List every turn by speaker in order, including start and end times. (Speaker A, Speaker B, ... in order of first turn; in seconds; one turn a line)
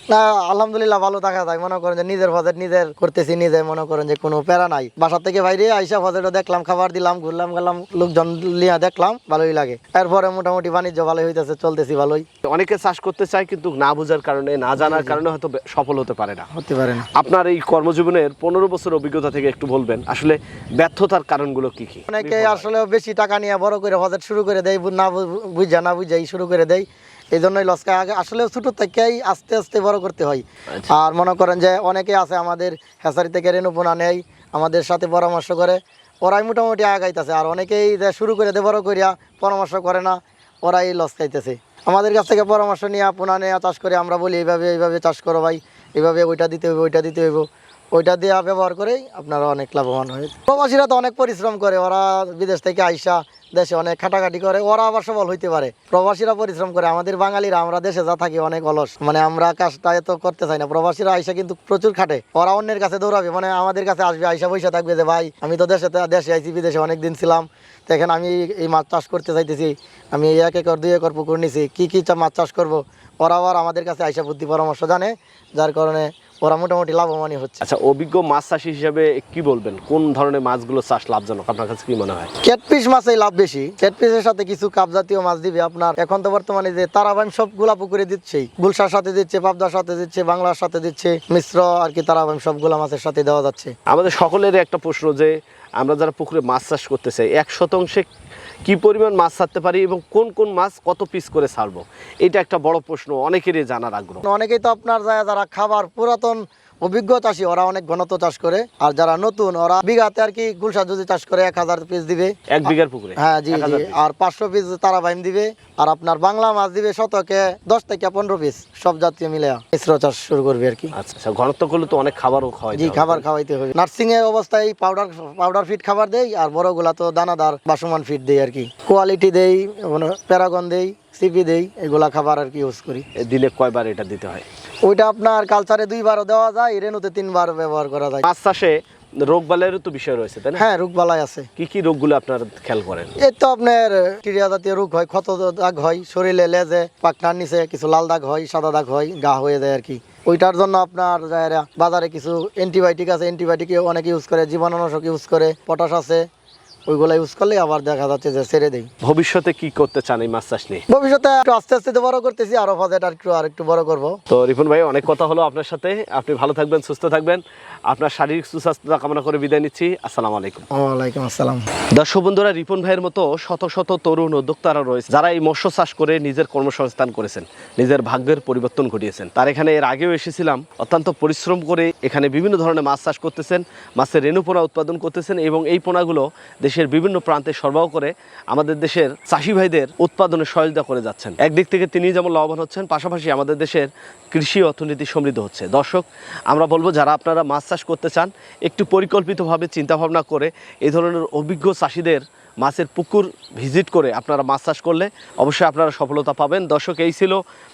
Speaker A: 0.1-12.2
Speaker B: 12.4-16.5
Speaker A: 14.8-15.2
Speaker A: 16.5-17.1
Speaker B: 17.1-22.6
Speaker A: 22.1-77.6
Speaker B: 77.6-82.3
Speaker A: 82.4-93.7
Speaker B: 93.9-98.1
Speaker B: 98.6-104.2
Speaker A: 104.2-120.9
Speaker B: 112.5-114.0
Speaker B: 120.9-123.2
Speaker A: 122.7-133.1
Speaker B: 133.2-134.4
Speaker A: 134.8-138.2
Speaker B: 138.2-140.6
Speaker A: 140.6-141.5
Speaker B: 141.6-143.1
Speaker A: 143.2-156.2
Speaker A: 156.9-158.9
Speaker B: 159.0-160.8
Speaker A: 160.9-164.2
Speaker B: 164.3-170.6
Speaker A: 170.7-171.6
Speaker B: 171.9-207.4